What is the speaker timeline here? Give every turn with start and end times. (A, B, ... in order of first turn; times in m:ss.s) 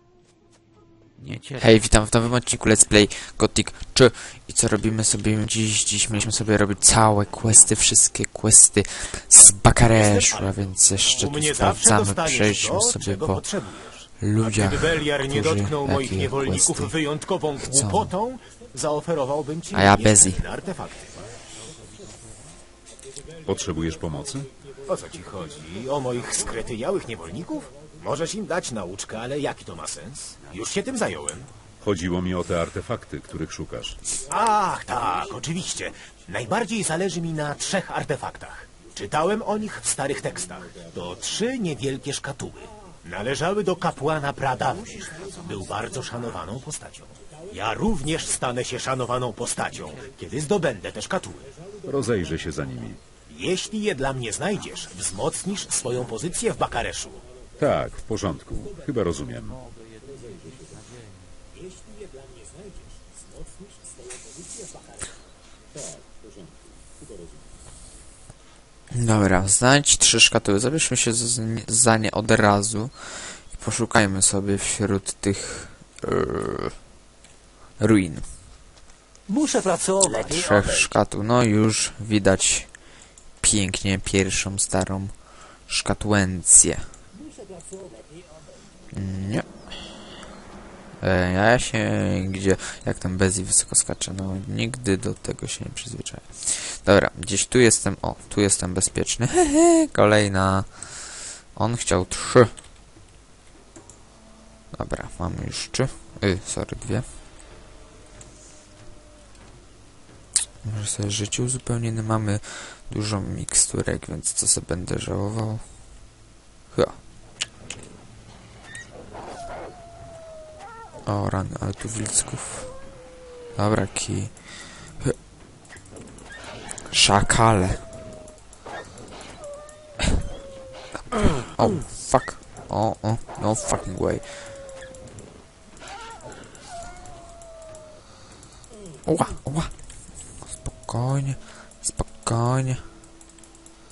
0:01.2-0:01.7 A
0:01.6-0:13.5 B
0:09.9-0:10.5 C
0:11.2-0:21.2 C
0:14.1-0:17.0 B
0:17.6-0:18.1 B
0:19.7-0:20.4 B
0:23.4-0:24.5 D
0:24.8-0:31.5 C
0:31.8-0:34.0 D
0:34.3-0:51.5 C
0:51.8-0:53.0 D
0:53.3-0:57.2 C
0:57.6-0:59.6 D
0:59.6-1:01.2 A
1:08.9-1:16.8 B
1:17.8-1:18.3 B
1:19.3-1:20.9 C
1:20.2-1:26.9 B
1:28.9-1:29.5 B
1:31.0-1:42.5 B
1:44.7-1:47.0 B
1:50.6-1:56.1 B
1:56.7-1:57.0 B
2:01.0-2:02.8 B
2:03.5-2:05.1 B
2:06.9-2:07.9 B
2:11.5-2:14.4 B
2:19.0-2:19.7 B
2:20.4-2:22.8 B